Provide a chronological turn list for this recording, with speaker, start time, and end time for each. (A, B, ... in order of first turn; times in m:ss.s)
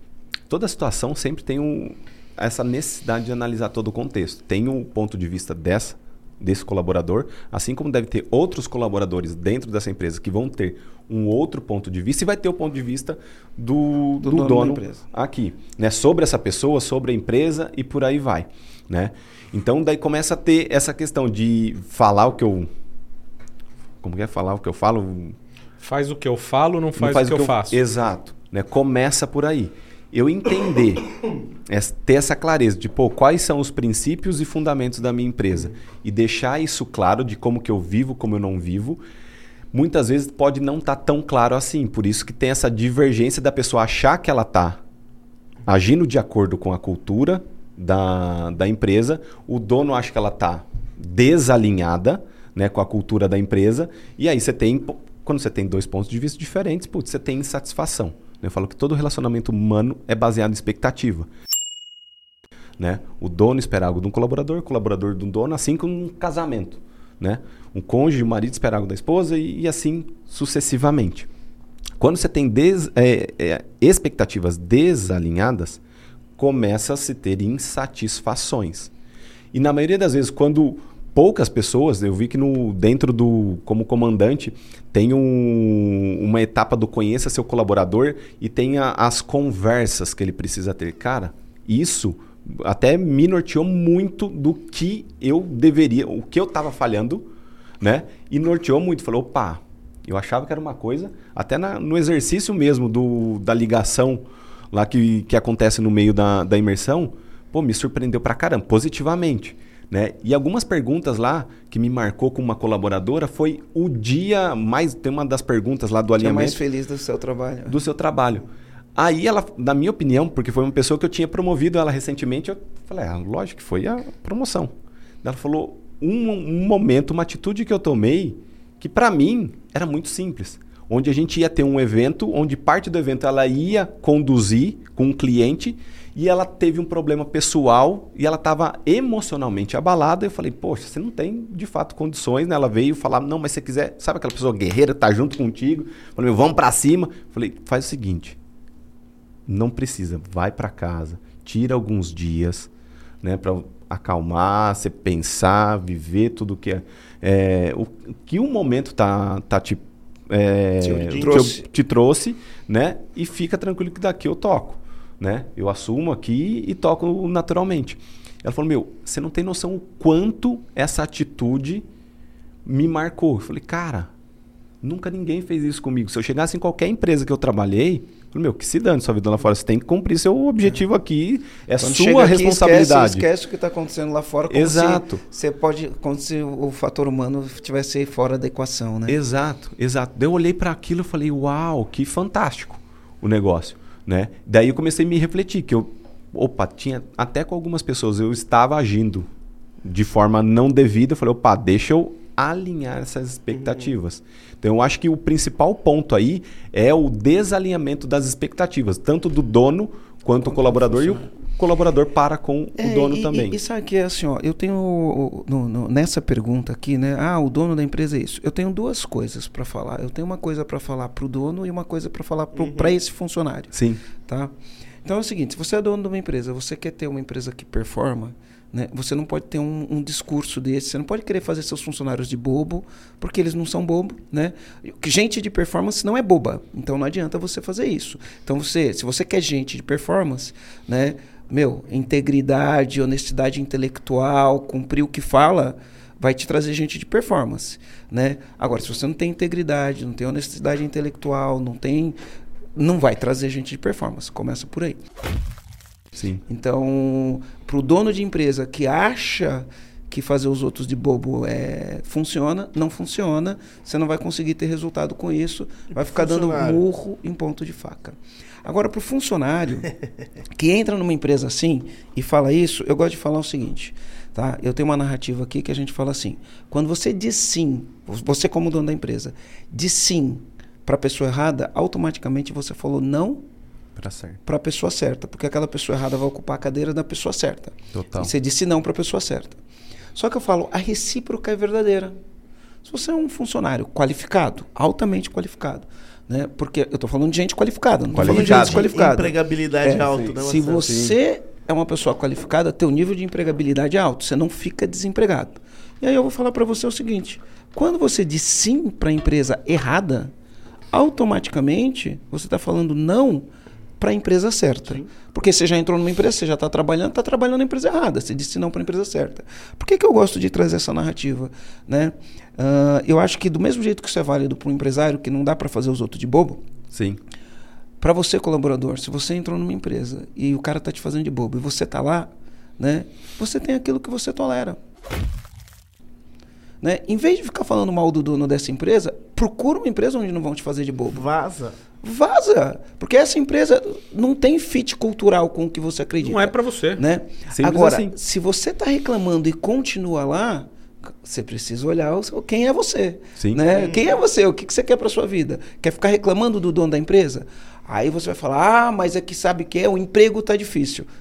0:00.5-0:22.7 A
0:14.2-0:15.0 B
0:24.0-0:25.4 A
0:25.8-0:27.8 C
0:27.0-0:31.1 A
0:31.7-0:39.0 A
0:39.7-0:44.8 A
0:45.7-1:01.3 A
1:02.8-1:11.3 A
1:12.0-1:15.8 A
1:16.4-1:18.9 A
1:19.5-1:37.3 A
1:37.8-1:56.6 A
1:56.2-1:57.8 B
1:57.7-2:04.7 A
2:05.2-2:28.4 A
2:29.5-2:32.7 A
2:33.2-2:51.9 A
2:40.8-2:41.5 D
2:40.8-2:41.7 B
2:52.6-2:54.1 A
2:54.8-3:03.3 A
3:01.8-3:09.2 B
3:04.5-3:05.2 A
3:09.1-3:19.3 A
3:19.8-3:33.6 A
3:30.4-3:31.3 B
3:32.8-3:44.5 B
3:42.6-3:43.0 D
3:43.7-3:44.0 A
3:45.0-4:12.2 B
4:12.8-4:15.0 B
4:16.1-4:16.4 A
4:16.5-4:29.9 B
4:25.9-4:26.8 D
4:30.5-4:43.4 B
4:44.0-4:44.4 A
4:44.4-4:49.6 B
4:47.9-4:48.3 A
4:50.2-4:52.2 B
4:52.8-5:10.3 B
4:58.1-4:58.9 A
4:58.2-5:01.1 D
5:00.0-5:01.2 A
5:10.9-5:13.5 B
5:14.0-5:26.6 B
5:26.9-5:27.2 A
5:28.0-5:34.8 B
5:36.8-5:41.2 B
5:41.1-5:41.8 D
5:42.0-6:01.1 B
5:46.2-5:47.0 C
5:47.5-5:48.2 A
5:53.4-5:53.6 A
5:53.7-5:54.1 D